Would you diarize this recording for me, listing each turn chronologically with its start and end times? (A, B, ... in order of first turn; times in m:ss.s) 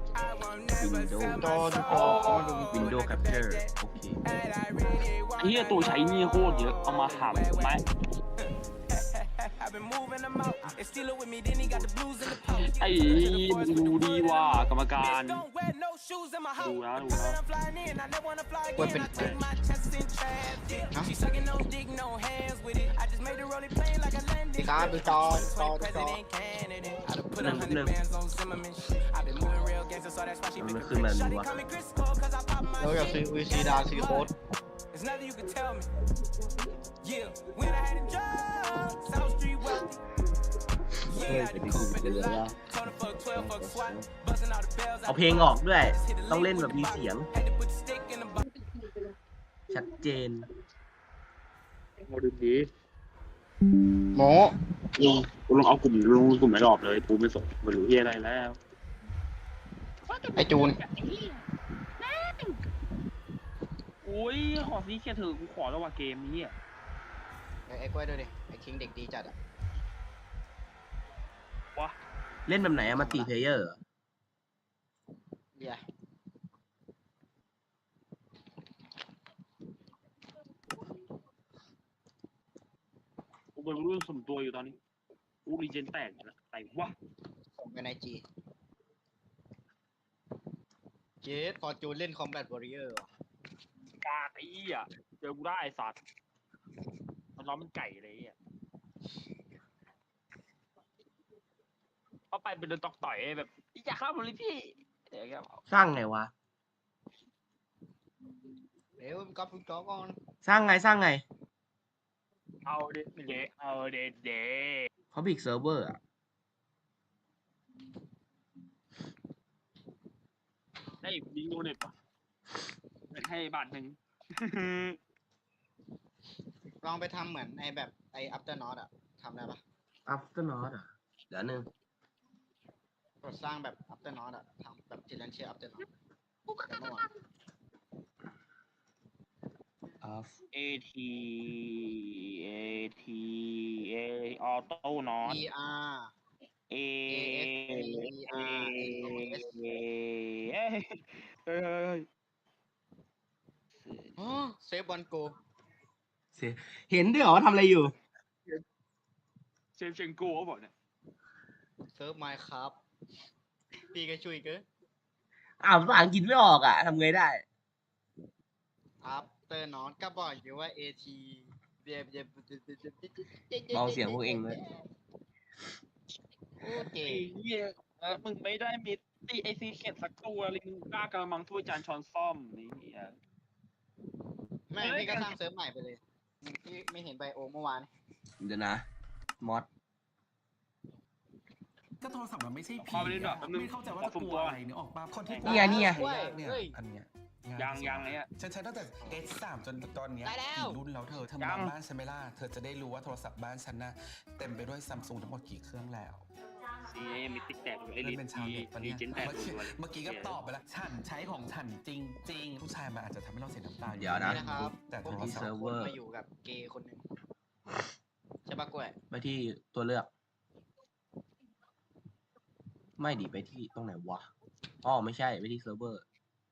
0:00.1-0:07.8 A
0:00.8-0:01.6 B
0:01.4-0:02.7 C
0:01.9-0:02.5 D
0:02.7-0:04.2 B
0:05.4-0:07.8 D
0:08.4-0:34.3 A
0:12.7-0:15.4 D
0:16.6-0:17.4 D
0:18.8-0:19.2 C
0:19.1-0:19.5 D
0:24.6-0:26.2 C
0:27.4-0:28.0 B
0:30.6-0:31.6 B
0:32.8-0:34.3 C
0:34.9-0:35.9 A
0:37.0-0:39.9 A
0:41.0-0:48.5 A
0:41.1-0:42.7 B
0:43.3-0:44.1 B
0:45.0-0:47.3 B
0:49.7-0:50.5 B
0:52.0-0:52.7 D
0:54.2-0:54.6 C
0:55.0-0:58.6 D
1:00.1-1:01.4 D
1:00.4-1:00.8 C
1:02.0-1:02.6 D
1:04.0-1:06.5 D
1:07.7-1:09.3 C
1:12.5-1:13.8 B
1:12.9-1:13.3 C
1:15.6-1:15.8 C
1:23.6-1:24.8 D
1:25.5-1:27.0 D
1:27.6-1:28.2 C
1:31.2-1:33.1 C
1:34.0-1:36.0 D
1:37.4-1:38.4 D
1:42.3-1:45.6 D
1:45.7-1:46.3 B
1:49.0-1:50.2 C
1:50.4-1:51.2 B
1:52.6-1:54.9 D
1:55.1-1:56.0 B
2:01.0-2:01.9 D
2:03.1-2:05.0 D
2:06.8-2:09.6 C
2:10.1-2:11.7 B
2:13.2-2:15.9 C
2:16.6-2:17.1 C
2:20.0-2:20.4 B
2:20.5-2:25.4 D
2:25.2-2:26.1 C
2:26.7-2:32.1 D
2:27.1-2:29.5 C
2:34.2-2:35.4 C
2:36.3-2:37.9 B
2:39.8-2:40.7 D
2:42.0-2:42.8 C
2:43.9-2:44.6 C
2:45.6-2:47.4 B
2:49.0-2:54.8 C
2:53.7-2:54.6 B
2:56.6-2:57.3 C
2:56.7-3:03.2 D
3:04.7-3:07.9 C
3:04.8-3:05.3 D
3:08.4-3:08.9 B
3:09.4-3:09.7 B
3:12.0-3:26.3 E
3:12.8-3:14.6 D
3:15.3-3:15.7 D
3:15.4-3:16.8 C
3:15.4-3:16.0 B
3:17.6-3:18.3 D
3:19.0-3:19.3 C
3:20.2-3:20.8 C
3:21.4-3:21.7 D
3:26.9-3:30.4 D
3:28.0-3:35.6 E
3:34.0-3:34.4 B
3:34.2-3:37.0 C
3:35.1-3:36.0 B
3:38.5-3:39.0 C
3:39.1-3:40.1 B
3:43.0-3:44.3 B
3:44.8-3:46.0 B